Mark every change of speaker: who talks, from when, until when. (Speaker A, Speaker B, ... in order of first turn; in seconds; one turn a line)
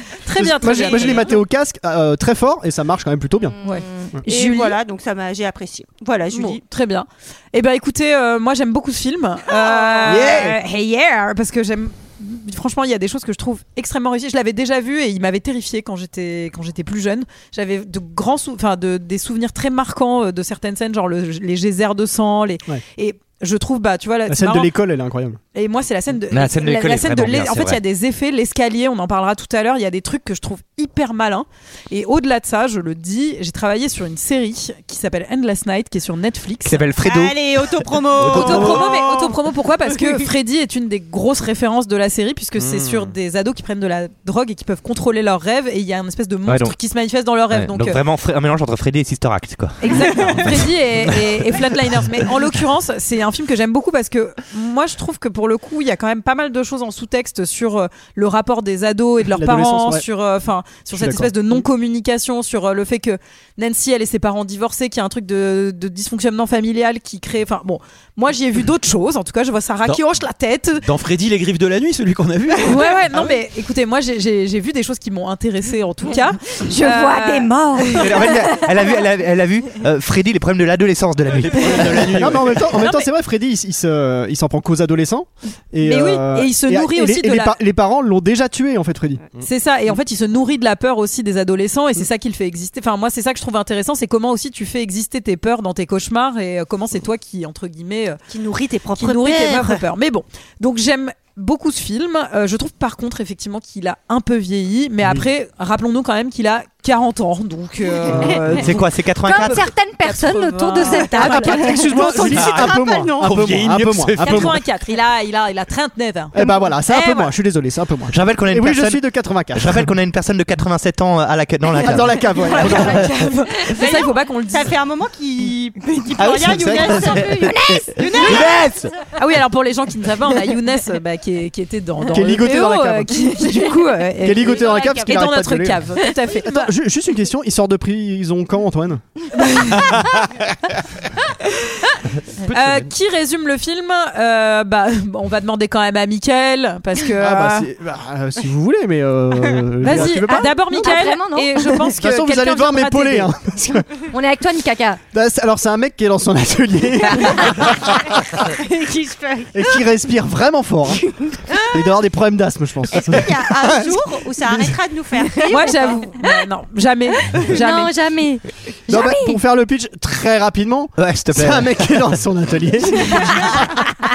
Speaker A: 0.2-1.4
Speaker B: 0.3-3.6
Speaker C: 0.8-1.3
Speaker D: 3.6-4.1
Speaker A: 3.6-4.8
Speaker C: 4.2-6.6
Speaker A: 6.3-24.7
Speaker C: 9.5-10.4
Speaker B: 10.0-10.5
Speaker B: 24.3-25.4
Speaker A: 25.5-36.8
Speaker E: 26.3-27.8
Speaker E: 36.6-38.9
Speaker C: 37.0-39.4
Speaker A: 38.2-48.0
Speaker F: 42.6-43.1
Speaker E: 46.5-46.8
Speaker E: 47.5-51.3
Speaker A: 49.8-70.8
Speaker B: 59.3-60.0
Speaker B: 60.9-61.6
Speaker F: 70.8-73.2
Speaker A: 72.6-78.1
Speaker D: 76.6-78.7
Speaker E: 77.9-82.4
Speaker F: 81.3-82.6
Speaker B: 82.2-89.2
Speaker A: 82.8-83.1
Speaker A: 85.8-87.6
Speaker A: 89.4-98.2
Speaker C: 98.3-99.8
Speaker A: 99.0-112.2
Speaker B: 108.1-108.7
Speaker E: 108.5-109.6
Speaker D: 109.2-112.0
Speaker B: 111.2-114.6
Speaker C: 111.9-113.3
Speaker F: 112.4-114.6
Speaker A: 114.2-117.3
Speaker B: 116.3-119.9
Speaker E: 118.1-122.3
Speaker B: 121.8-123.1
Speaker A: 122.5-124.7
Speaker C: 123.7-128.5
Speaker E: 126.2-128.9
Speaker D: 126.8-128.4
Speaker A: 129.2-136.7
Speaker B: 132.1-133.4
Speaker B: 134.2-139.0
Speaker C: 134.5-135.1
Speaker A: 139.3-140.0
Speaker F: 142.5-142.8
Speaker A: 142.5-147.7
Speaker B: 147.2-150.8
Speaker A: 149.8-153.3
Speaker D: 150.0-151.9
Speaker B: 151.9-154.0
Speaker D: 154.0-155.0
Speaker B: 155.1-158.0
Speaker C: 157.3-157.6
Speaker C: 158.3-159.8
Speaker B: 159.5-161.0
Speaker C: 161.2-161.8
Speaker B: 161.7-164.7
Speaker C: 162.9-166.0
Speaker A: 165.5-167.9
Speaker D: 167.5-169.4
Speaker B: 168.9-173.6
Speaker E: 171.0-172.1